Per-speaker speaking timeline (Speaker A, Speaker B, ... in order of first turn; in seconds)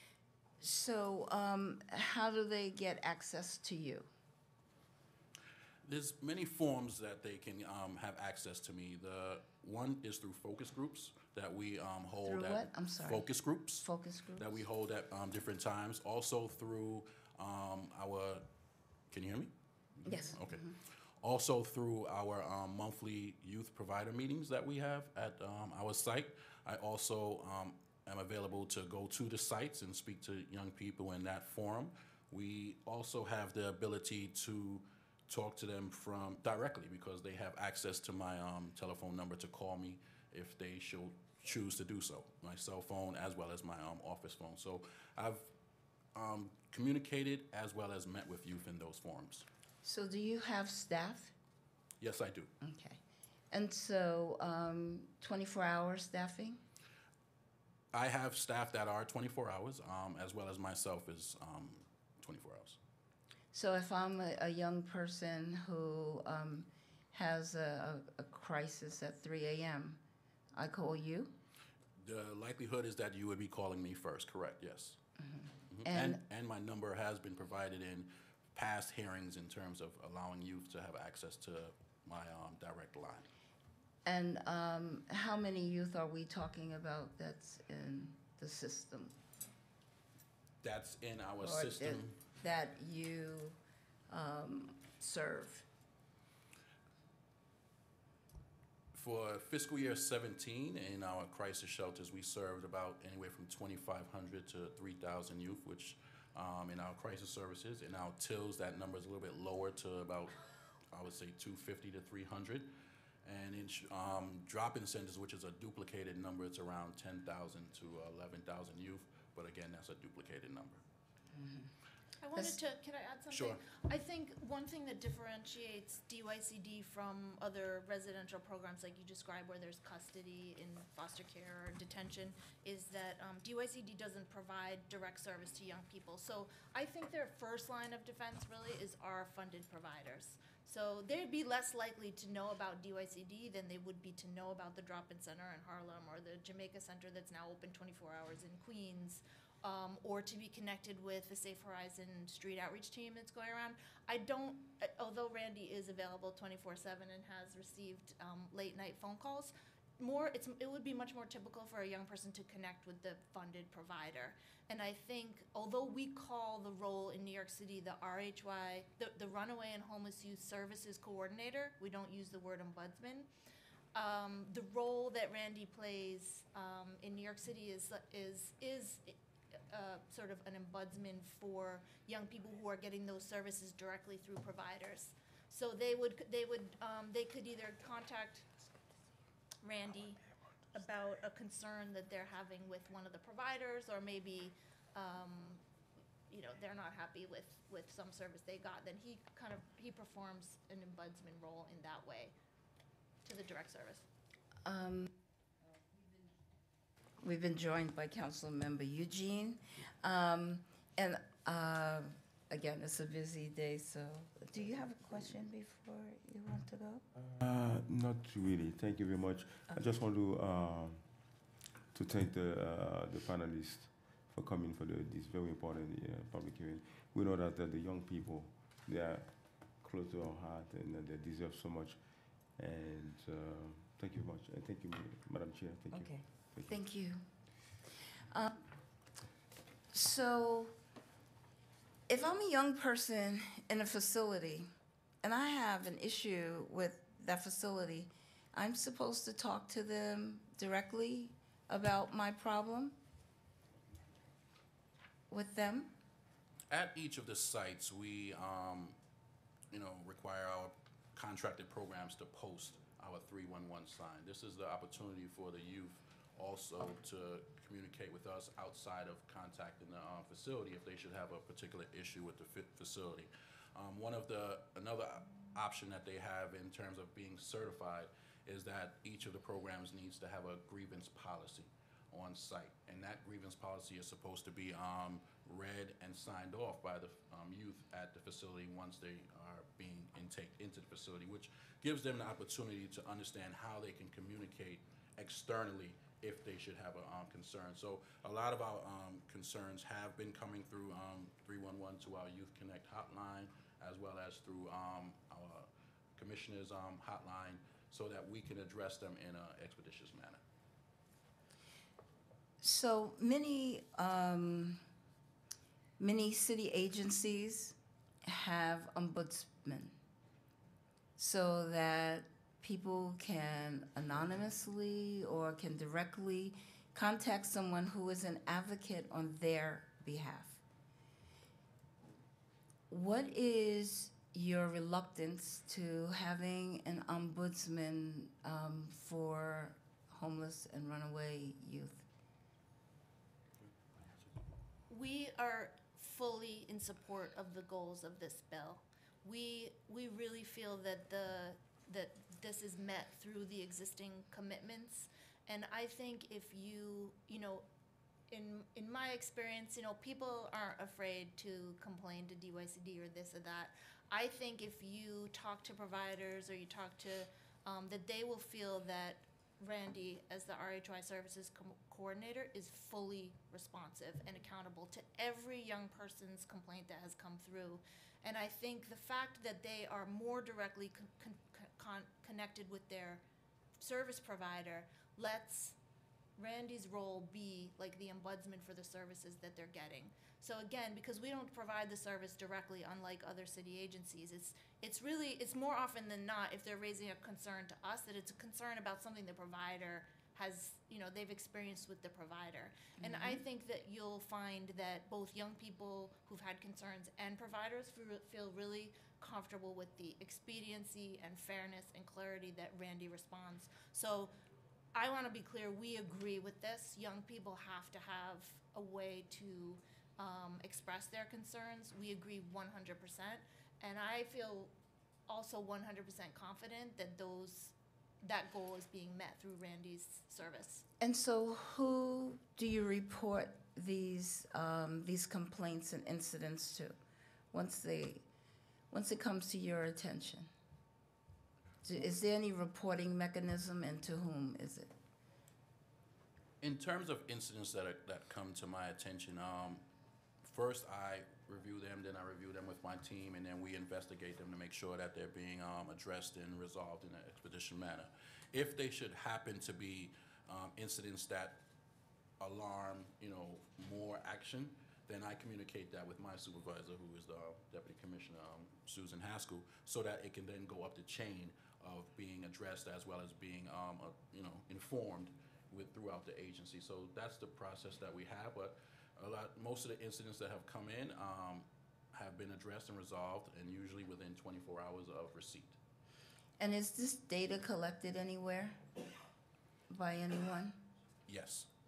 Speaker A: 0.6-4.1, 12.2-13.3, 13.8-14.6, 20.1-20.7, 49.8-51.3, 52.6-56.6, 63.5-70.0, 70.5-71.4, 75.2-76.2, 84.0-89.2, 91.4-93.6, 94.1-95.7, 121.3-121.7, 204.7-205.1, 207.2-217.1, 235.9-237.3, 238.3-238.6, 239.9-240.8, 242.1-244.7, 245.2-253.0, 255.3-256.0, 312.6-314.8, 316.0-320.0, 321.2-330.6, 332.9-342.1, 403.0-403.4, 431.0-437.0, 437.5-438.2, 438.9-440.5, 441.8-444.9, 486.6-488.8, 489.9-490.8
Speaker B: 5.8-13.8, 14.4-18.5, 19.1-19.5, 20.0-45.5, 46.1-49.5, 52.0-52.5, 57.9-62.8, 72.0-75.0, 75.7-83.3, 90.6-92.1, 98.9-110.4, 110.9-112.7, 113.2-120.8, 123.3-123.6, 256.7-259.0, 259.7-310.4, 446.6-449.9, 450.4-461.6, 462.4-485.8, 491.3-491.7
Speaker C: 122.2-173.3, 173.9-179.2, 179.7-188.5, 189.6-190.2, 190.7-195.6, 196.3-202.3, 203.2-204.1, 344.9-357.7, 358.3-383.2, 383.8-385.8, 386.4-414.3, 414.9-424.7, 425.3-430.9
Speaker D: 217.3-236.8